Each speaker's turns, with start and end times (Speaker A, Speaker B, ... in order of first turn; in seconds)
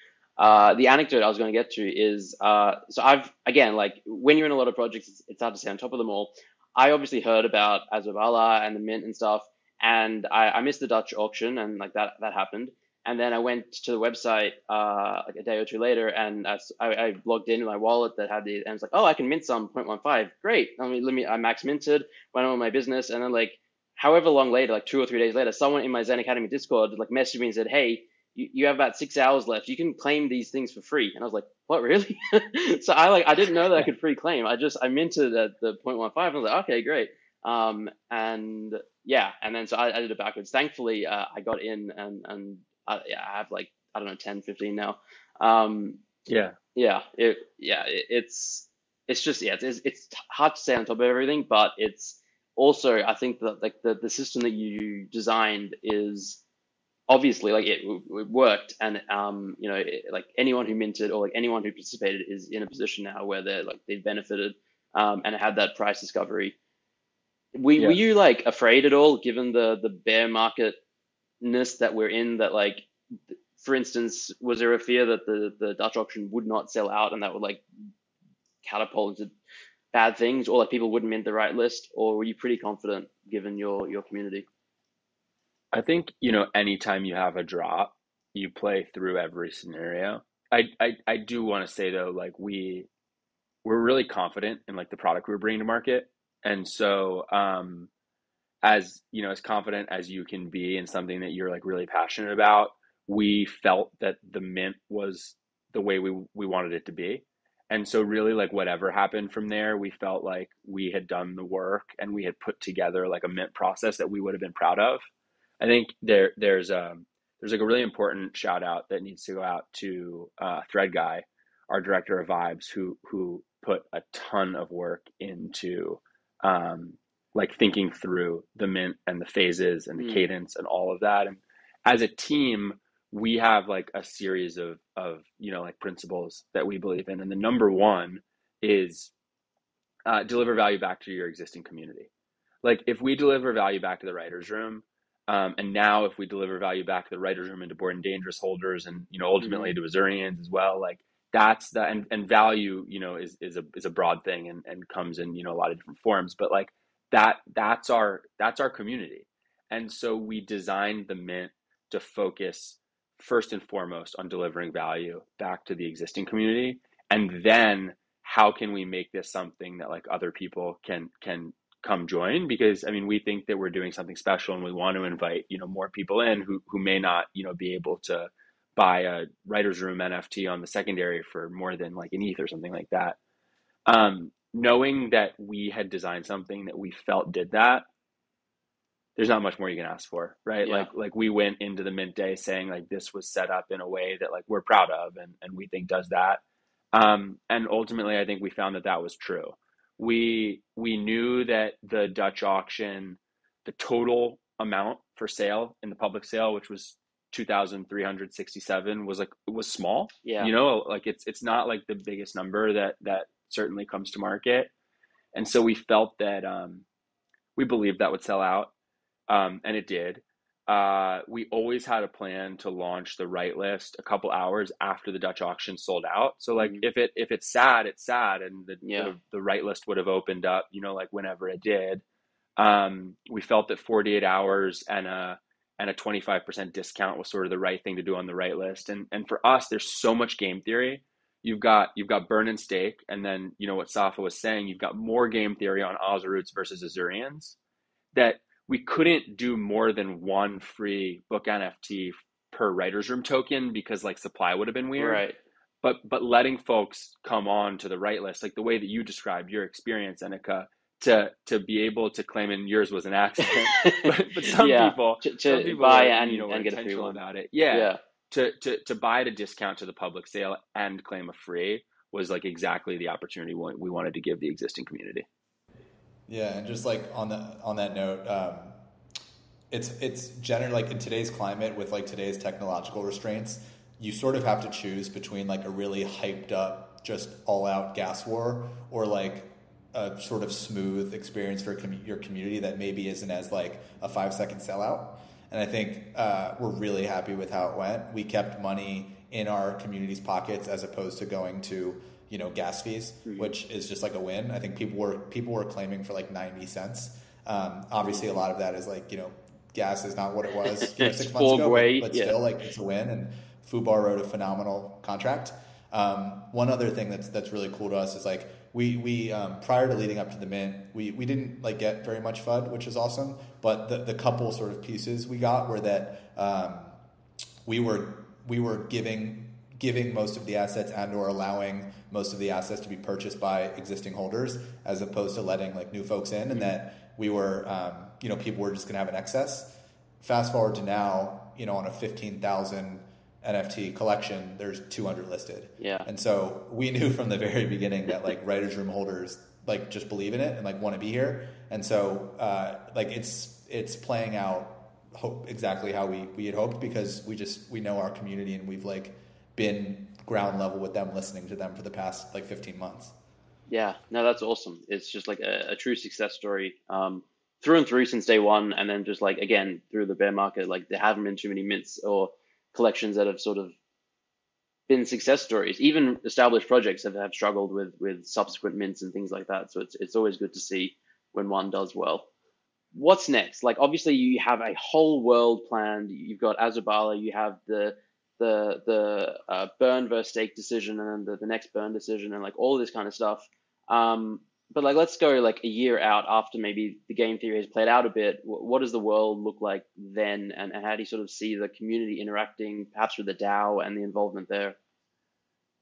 Speaker A: 0.4-46.0, 46.8-56.4, 57.1-66.6, 67.5-70.8, 71.4-72.9, 73.6-77.6, 78.6-79.3, 79.9-84.5, 130.0-130.3, 149.4-149.8, 190.6-190.9, 210.2-210.5, 226.6-226.8, 228.8-229.1, 255.0-255.4, 263.4-267.2, 267.7-268.0, 303.2-303.5, 308.0-308.4, 310.7-312.4, 345.8-346.1, 363.7-373.7, 374.9-382.3, 382.9-404.8
Speaker B: 46.3-46.6, 85.7-92.9, 93.6-97.9, 98.6-115.1, 115.6-139.1, 140.1-142.1, 142.6-183.2, 183.9-187.8, 189.2-196.4, 196.9-214.7, 215.3-216.9, 217.6-218.7, 219.3-232.0, 232.6-247.6, 248.1-255.2, 255.8-275.3
Speaker C: 276.3-278.8, 279.7-327.0, 327.6-363.1